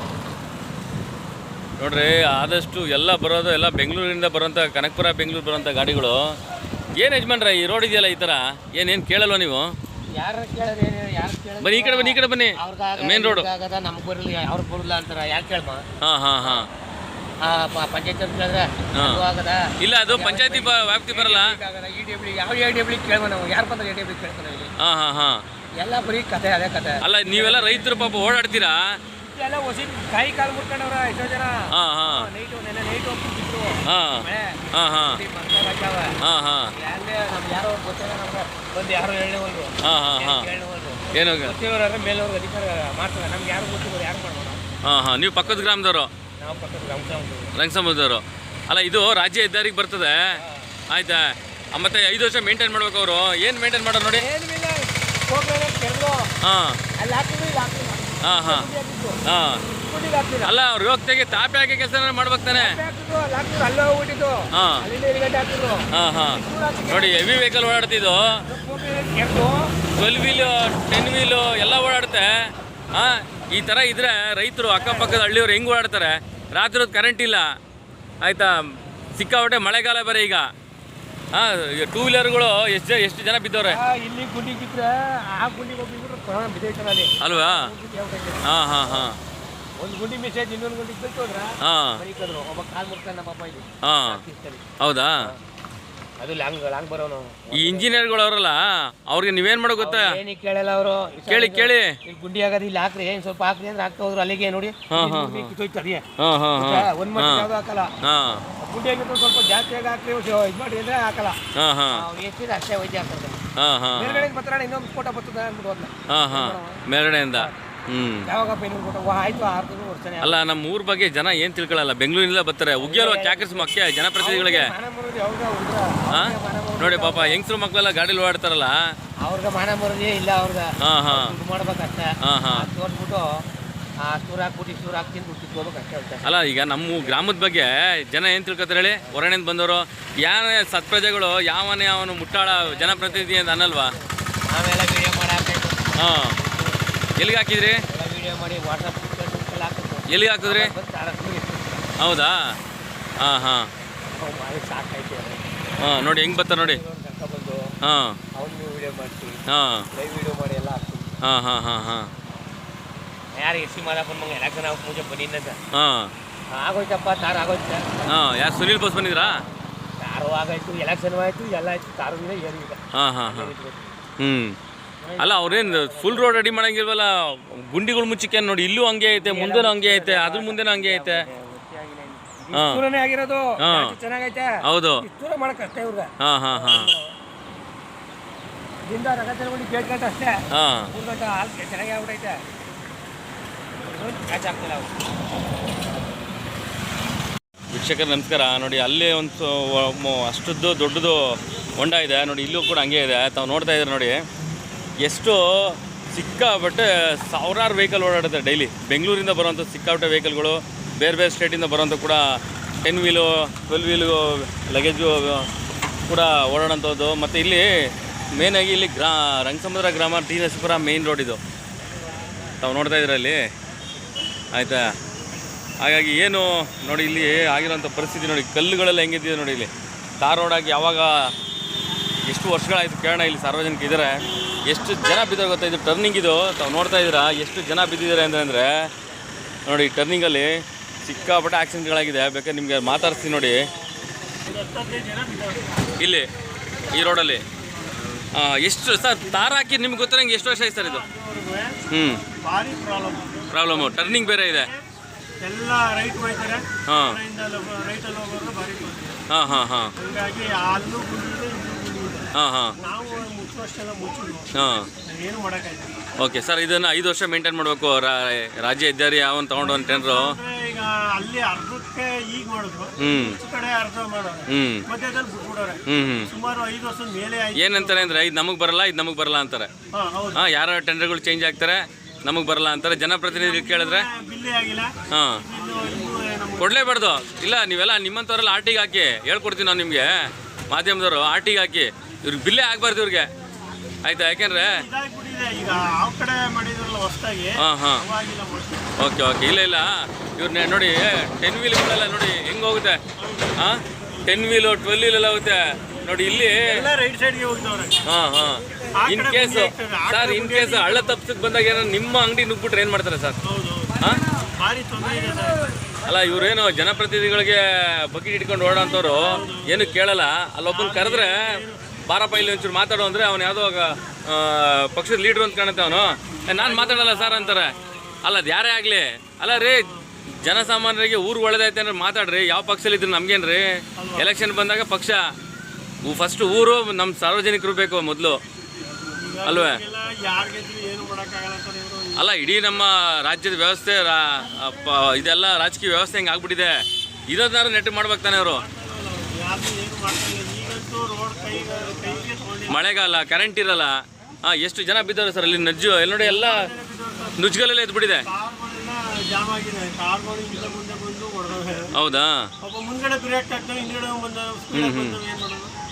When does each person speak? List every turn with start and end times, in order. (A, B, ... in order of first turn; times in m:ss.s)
0:01.8-0:06.4 A
0:07.0-0:09.7 A
0:10.2-0:15.8 B
0:11.6-0:13.5 A
0:16.0-0:16.7 A
0:17.4-0:24.7 B
0:18.9-0:19.2 A
0:19.8-0:21.6 A
0:24.8-0:25.4 A
0:25.8-0:28.0 B
0:27.0-0:29.0 A
0:29.2-0:36.2 B
0:31.7-0:32.3 A
0:33.8-0:35.2 A
0:36.2-0:36.7 A
0:36.7-0:44.6 B
0:39.8-0:40.5 A
0:41.1-0:41.5 A
0:44.8-0:46.1 A
0:46.4-0:47.5 B
0:47.5-0:54.3 A
0:50.3-0:50.6 B
0:54.2-0:56.3 B
0:56.4-0:56.8 A
0:57.0-1:00.5 B
0:58.2-0:58.7 A
0:59.2-0:59.6 A
1:00.4-1:02.8 A
1:02.5-1:07.3 B
1:04.5-1:04.8 A
1:05.9-1:08.4 A
1:08.4-1:09.7 B
1:09.9-1:17.6 A
1:18.2-1:20.5 A
1:21.3-1:23.8 A
1:23.6-1:29.0 B
1:27.2-1:27.7 A
1:28.4-1:29.2 A
1:29.8-1:34.6 B
1:31.6-1:32.0 A
1:33.8-1:34.2 A
1:34.8-1:35.3 A
1:36.2-1:38.0 B
1:37.5-1:40.2 A
1:39.8-1:47.9 B
1:41.3-1:42.0 A
1:44.9-1:45.5 A
1:46.2-1:47.5 A
1:48.0-1:48.4 A
1:48.6-1:51.4 B
1:51.5-1:52.0 A
1:51.9-1:53.4 B
1:53.6-1:54.3 A
1:53.9-1:57.5 B
1:56.1-1:58.3 A
1:58.2-2:00.4 B
2:00.2-2:04.7 A
2:02.8-2:07.4 B
2:06.1-2:08.9 A
2:09.2-2:13.4 B
2:10.8-2:11.3 A
2:12.2-2:12.7 A
2:14.0-2:16.4 B
2:16.2-2:23.9 A
2:17.0-2:17.4 B
2:22.4-2:23.4 B
2:24.5-2:26.7 B
2:26.0-2:26.4 A
2:27.2-2:27.8 A
2:27.9-2:31.9 B
2:30.1-2:30.7 A
2:32.0-2:32.6 A
2:33.2-2:33.7 A
2:34.1-2:35.5 B
2:35.8-2:36.8 A
2:36.4-2:37.8 B
2:37.8-2:38.2 A
2:38.3-2:39.4 B
2:39.5-2:39.9 A
2:39.9-2:41.1 B
2:41.2-2:42.1 A
2:43.4-2:45.6 B
2:45.7-2:46.1 A
2:46.5-2:48.1 B
2:48.1-2:49.4 A
2:50.0-2:54.0 B
2:52.9-2:53.5 A
2:54.2-2:54.6 A
2:55.0-2:56.6 B
2:55.2-3:01.2 A
2:59.2-3:07.1 B
3:02.5-3:02.8 A
3:03.6-3:03.9 A
3:04.6-3:05.0 A
3:06.2-3:06.9 A
3:08.8-3:12.4 B
3:10.5-3:10.9 A
3:13.8-3:15.0 B
3:17.7-3:24.2 A
3:25.0-3:35.5 A
3:36.1-3:37.7 A
3:38.3-3:41.4 A
3:42.6-3:43.4 A
3:44.5-3:44.9 A
3:45.8-3:51.3 A
3:52.3-3:58.8 A
3:59.6-4:00.5 A
4:01.0-4:03.6 A
4:04.4-4:05.6 C
4:06.0-4:06.3 A
4:06.9-4:07.4 A
4:08.3-4:11.0 A
4:09.3-4:09.7 C
4:10.5-4:11.8 C
4:11.9-4:12.2 A
4:12.3-4:14.8 C
4:13.5-4:14.7 A
4:15.4-4:19.2 C
4:16.9-4:17.2 A
4:19.3-4:19.9 A
4:20.0-4:26.0 C
4:22.3-4:22.8 A
4:24.5-4:24.9 A
4:26.2-4:30.4 A
4:29.6-4:38.2 C
4:33.0-4:33.4 A
4:34.5-4:34.8 A
4:35.9-4:36.3 A
4:37.5-4:39.7 A
4:39.9-4:40.5 C
4:40.3-4:44.1 A
4:43.3-4:46.9 C
4:45.1-4:45.4 A
4:46.6-4:53.3 A
4:54.0-4:54.8 A
4:54.6-4:58.8 C
4:57.6-4:58.0 A
4:59.0-5:03.0 A
5:03.2-5:03.5 C
5:03.6-5:06.9 A
5:06.6-5:08.0 C
5:08.0-5:13.4 A
5:08.9-5:11.2 C
5:13.4-5:15.7 C
5:16.0-5:35.2 A
5:19.1-5:19.9 C
5:20.7-5:22.0 C
5:26.5-5:27.8 C
5:29.6-5:30.0 C
5:34.0-5:34.3 C
5:36.0-5:38.4 A
5:39.2-5:42.2 C
5:39.4-5:39.8 A
5:42.2-5:46.8 A
5:47.3-5:48.6 A
5:48.6-5:52.9 C
5:52.7-5:56.7 A
5:56.2-5:57.5 C
5:57.4-5:58.3 A
5:58.2-6:01.9 C
6:01.9-6:02.5 A
6:02.6-6:05.7 C
6:04.7-6:05.2 A